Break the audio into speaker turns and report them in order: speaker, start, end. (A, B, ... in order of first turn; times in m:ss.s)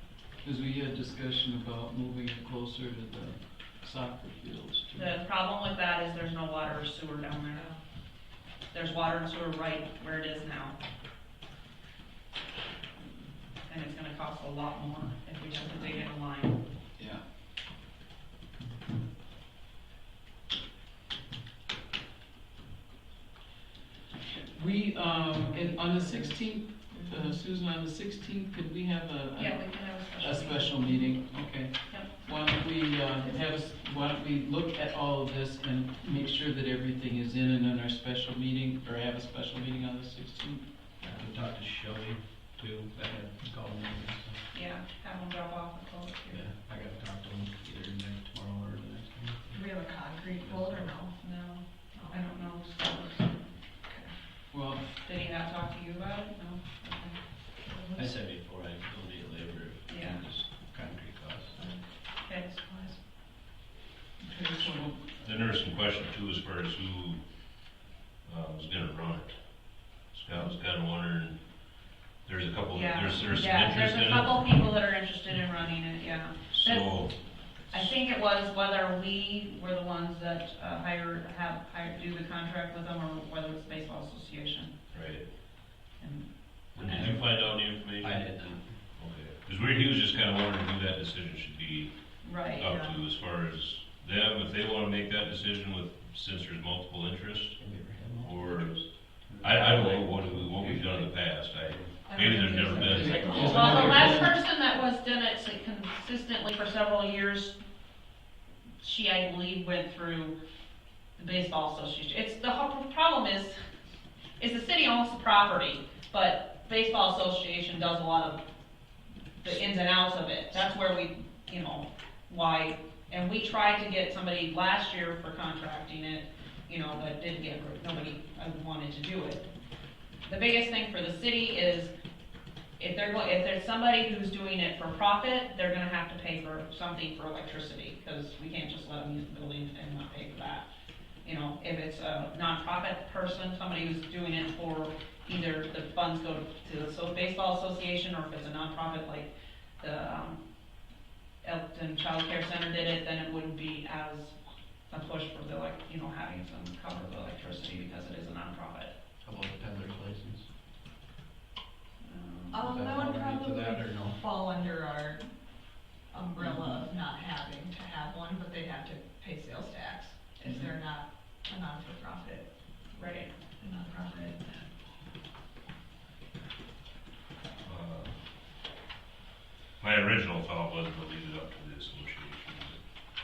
0:00.4-0:05.2 A
0:04.9-0:07.7 B
0:07.5-0:07.8 C
0:08.7-0:10.8 B
0:13.6-0:16.6 B
0:15.6-0:16.0 C
0:17.0-0:17.2 A
0:24.5-0:40.6 A
0:29.3-0:31.0 B
0:41.1-0:44.4 D
0:44.5-0:46.5 B
0:46.3-0:49.6 D
0:49.5-0:51.4 C
0:50.4-0:50.9 D
0:51.2-0:53.4 B
0:52.0-0:52.2 C
0:54.5-0:54.9 A
0:55.0-0:57.2 B
0:57.6-0:58.1 C
0:57.9-1:01.6 D
0:59.9-1:00.2 B
1:02.2-1:02.9 B
1:04.2-1:05.1 A
1:05.2-1:07.7 E
1:08.2-1:14.6 E
1:12.7-1:17.1 B
1:16.5-1:17.2 E
1:17.7-1:24.7 B
1:24.9-1:25.2 E
1:26.0-1:26.9 B
1:26.7-1:28.4 E
1:26.8-1:27.3 D
1:28.0-1:28.8 D
1:28.9-1:31.9 E
1:32.2-1:32.8 B
1:32.5-1:37.6 E
1:37.6-1:38.6 D
1:38.2-1:44.1 E
1:39.3-1:41.0 D
1:42.2-1:43.8 C
1:42.8-1:44.0 D
1:42.8-1:47.6 B
1:42.9-1:44.3 A
1:48.8-1:50.3 B
1:51.2-1:53.6 B
1:54.4-1:58.4 B
1:59.4-2:09.5 B
2:10.2-2:11.9 B
2:12.8-2:20.6 B
2:21.2-2:30.4 B
2:31.4-2:34.4 B
2:34.9-2:38.9 B
2:39.2-2:40.4 D
2:42.0-2:42.6 B
2:42.5-2:45.2 C
2:42.6-2:44.2 D
2:46.0-2:52.5 C
2:52.9-2:53.3 B
2:53.5-2:54.7 C
2:57.6-2:58.2 E
2:59.8-3:02.8 E